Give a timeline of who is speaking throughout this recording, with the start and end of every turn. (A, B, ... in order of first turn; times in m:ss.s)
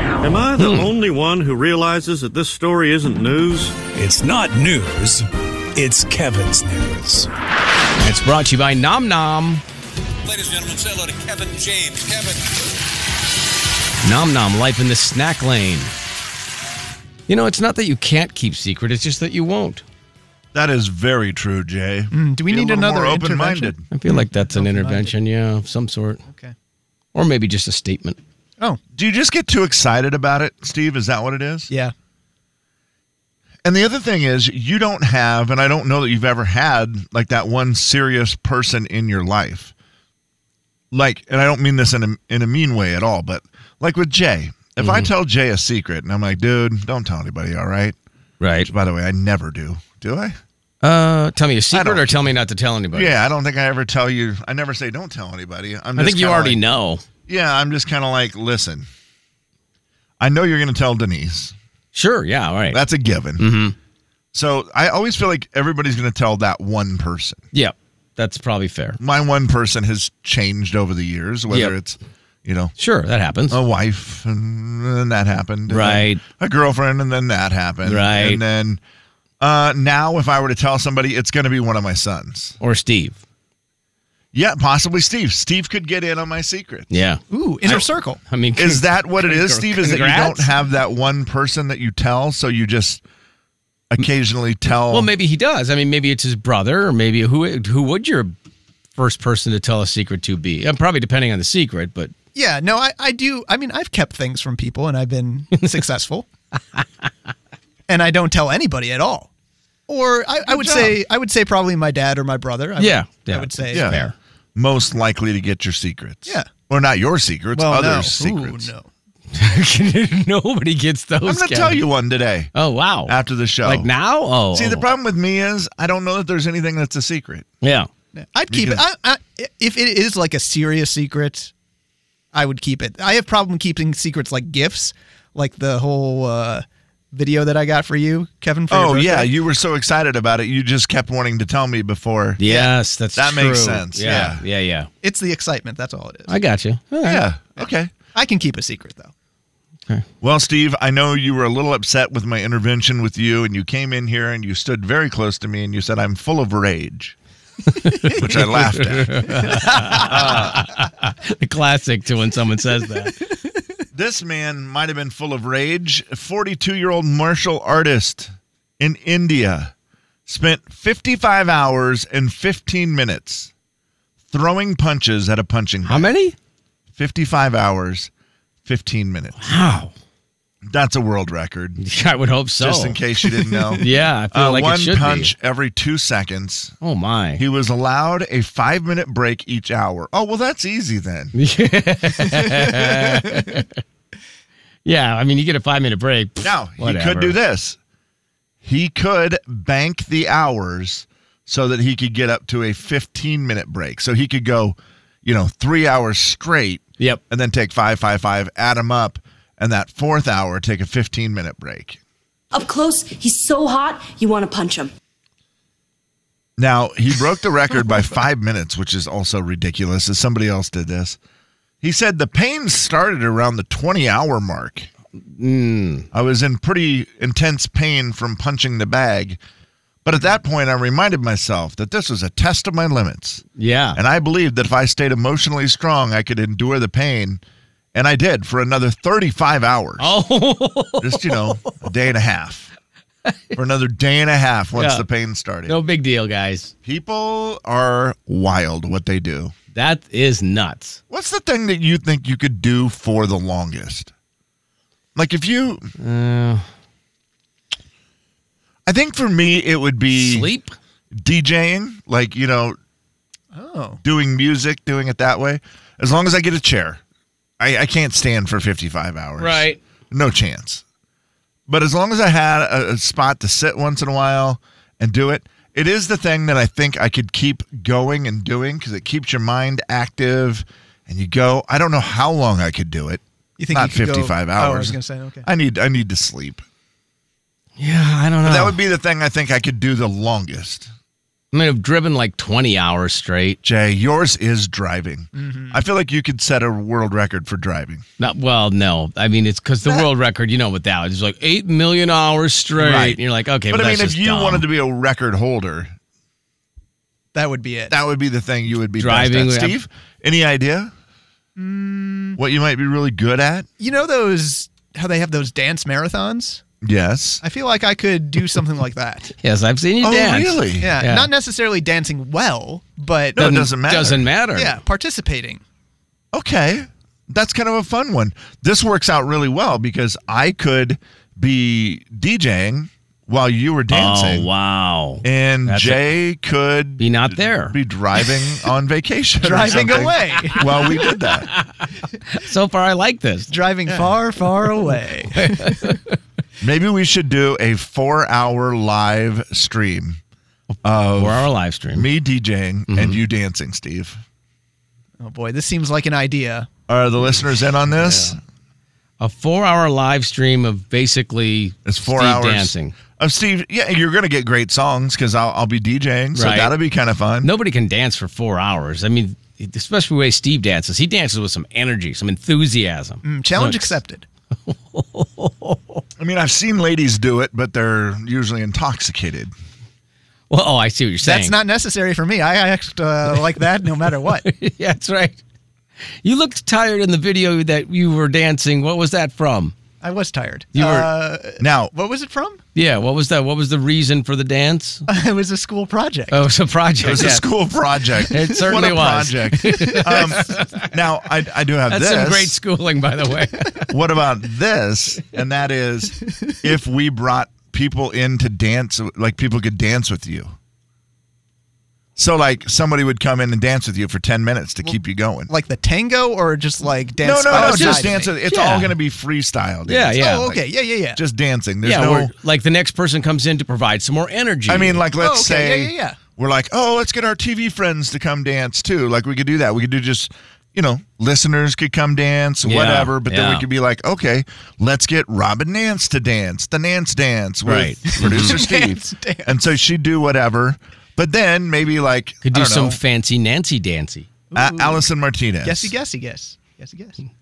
0:00.2-0:03.8 A
0:00.6-0:00.9 B
0:03.9-0:07.3 C
0:08.0-0:09.6 B
0:10.3-0:12.4 D
0:14.0-0:15.9 B
0:17.3-0:19.8 B
0:20.5-0:23.8 E
0:22.1-0:25.1 F
0:23.9-0:26.2 B
0:26.3-0:26.5 F
0:27.1-0:28.2 B
0:29.0-0:31.7 E
0:33.6-0:39.7 E
0:40.9-0:48.0 E
0:44.8-0:45.1 B
0:48.4-0:48.7 B
0:48.6-0:50.4 E
0:50.8-0:53.2 B
0:51.7-0:52.3 E
0:52.9-0:56.6 E
0:56.0-0:57.0 B
0:57.3-0:58.9 E
1:00.2-1:01.5 E
1:01.9-1:02.8 B
1:02.7-1:03.5 E
1:03.4-1:03.8 B
1:04.3-1:07.4 E
1:07.5-1:09.0 B
1:09.0-1:12.7 E
1:11.5-1:11.8 B
1:12.8-1:13.6 B
1:13.5-1:18.8 E
1:15.7-1:16.2 B
1:17.8-1:18.4 B
1:19.4-1:22.6 E
1:22.6-1:23.2 B
1:24.3-1:26.9 E
1:26.9-1:30.5 B
1:27.3-1:28.2 F
1:28.6-1:33.0 E
1:33.9-1:35.1 E
1:34.9-1:38.4 B
1:39.0-1:42.1 B
1:42.4-1:46.3 F
1:45.5-1:45.8 B
1:47.9-1:49.3 F
1:49.9-1:53.9 F
1:50.5-1:51.0 E
1:52.8-1:54.1 B
1:53.7-1:58.7 E
1:57.5-1:58.9 F
1:59.3-2:01.8 B
2:01.2-2:02.5 E
2:02.5-2:04.8 B
2:03.1-2:03.9 E
2:04.5-2:07.5 E
2:07.6-2:07.9 B
2:08.2-2:11.5 F
2:08.5-2:08.8 E
2:12.3-2:19.3 F
2:18.7-2:24.4 E
2:22.4-2:24.9 B
2:25.0-2:26.4 F
2:26.3-2:27.2 B
2:27.0-2:27.9 E
2:27.6-2:29.1 F
2:30.2-2:37.2 E
2:37.8-2:43.2 B
2:38.1-2:40.6 E
2:39.4-2:40.4 F
2:43.9-2:49.7 E
2:50.3-2:53.5 E
2:54.3-2:56.1 E
2:55.9-2:56.4 B
2:57.0-2:58.1 E
2:58.6-2:59.5 E
2:59.4-2:59.9 B
3:00.6-3:01.8 E
3:01.8-3:03.0 B
3:02.6-3:06.8 E
3:03.6-3:03.8 F
3:03.8-3:05.3 B
3:06.8-3:07.4 B
3:07.4-3:11.4 E
3:11.4-3:13.7 B
3:12.3-3:13.2 F
3:14.8-3:17.4 B
3:16.4-3:17.8 E
3:18.6-3:32.0 E
3:32.5-3:34.9 G
3:36.6-3:41.2 E
3:41.8-3:44.9 E
3:45.4-3:46.1 B
3:46.1-3:49.4 E
3:50.0-3:53.4 E
3:53.6-3:54.0 B
3:54.0-3:57.4 E
3:57.9-4:00.1 E
4:00.0-4:01.8 B
4:01.0-4:02.7 E
4:03.3-4:03.6 B
4:03.6-4:05.8 E
4:04.8-4:05.1 B
4:05.7-4:06.7 B
4:06.8-4:09.5 E
4:09.7-4:11.0 B
4:11.1-4:14.1 E
4:15.2-4:15.9 E
4:16.0-4:16.7 B
4:18.9-4:20.5 E
4:20.1-4:20.8 B
4:21.1-4:22.8 E
4:23.5-4:24.0 F
4:24.0-4:27.0 E
4:27.6-4:30.8 E
4:29.4-4:29.8 B
4:31.7-4:46.6 E
4:43.6-4:45.5 F
4:47.8-4:48.8 B
4:48.4-4:50.9 E
4:51.5-4:53.6 B
4:53.6-4:58.0 E
4:55.4-4:55.8 F
4:58.2-5:04.6 B
5:02.8-5:05.9 E
5:07.3-5:08.0 F
5:07.9-5:10.9 E
5:09.0-5:09.8 B
5:11.6-5:12.4 F
5:12.4-5:13.7 E
5:13.8-5:16.6 F
5:16.8-5:17.4 E
5:17.4-5:19.3 F
5:19.4-5:21.3 B
5:20.0-5:21.0 E
5:20.8-5:23.7 F
5:23.4-5:24.3 E
5:23.4-5:24.8 B
5:24.5-5:25.6 F
5:26.3-5:34.5 E
5:33.9-5:36.1 B
5:35.2-5:41.5 E
5:37.0-5:37.8 B
5:39.4-5:40.7 F
5:39.7-5:43.5 B
5:43.5-5:46.0 F
5:45.3-5:46.2 B
5:46.6-5:50.2 E
5:50.7-5:52.1 B
5:50.8-5:54.2 E
5:52.9-5:53.2 B
5:55.2-5:56.7 F
5:56.9-5:58.4 E
5:57.9-5:58.4 B
5:59.2-6:03.0 B
6:01.8-6:07.5 E
6:06.4-6:06.8 B
6:07.4-6:14.0 B
6:13.2-6:14.2 F
6:14.7-6:16.0 B
6:16.2-6:19.5 E
6:20.5-6:21.6 B
6:21.2-6:24.4 F
6:24.1-6:25.4 B
6:26.2-6:29.7 B
6:30.0-6:32.6 F
6:30.7-6:31.1 B
6:31.6-6:31.9 E
6:32.8-6:35.0 B
6:35.1-6:36.4 F
6:36.3-6:37.5 B
6:37.0-6:42.6 E
6:38.3-6:40.9 B
6:39.7-6:40.4 F
6:41.9-6:43.9 B
6:43.9-6:50.6 E
6:52.2-6:55.5 E
6:55.5-6:58.8 F
6:57.2-7:02.3 E
6:57.5-6:58.9 B
6:59.9-7:00.5 B
7:00.2-7:01.2 F
7:01.8-7:05.0 B
7:04.7-7:23.0 E
7:05.2-7:06.2 F
7:12.6-7:13.7 B
7:17.6-7:18.6 B
7:18.1-7:19.7 F
7:22.4-7:24.3 B
7:24.5-7:25.0 F
7:24.6-7:25.9 E
7:25.6-7:27.2 F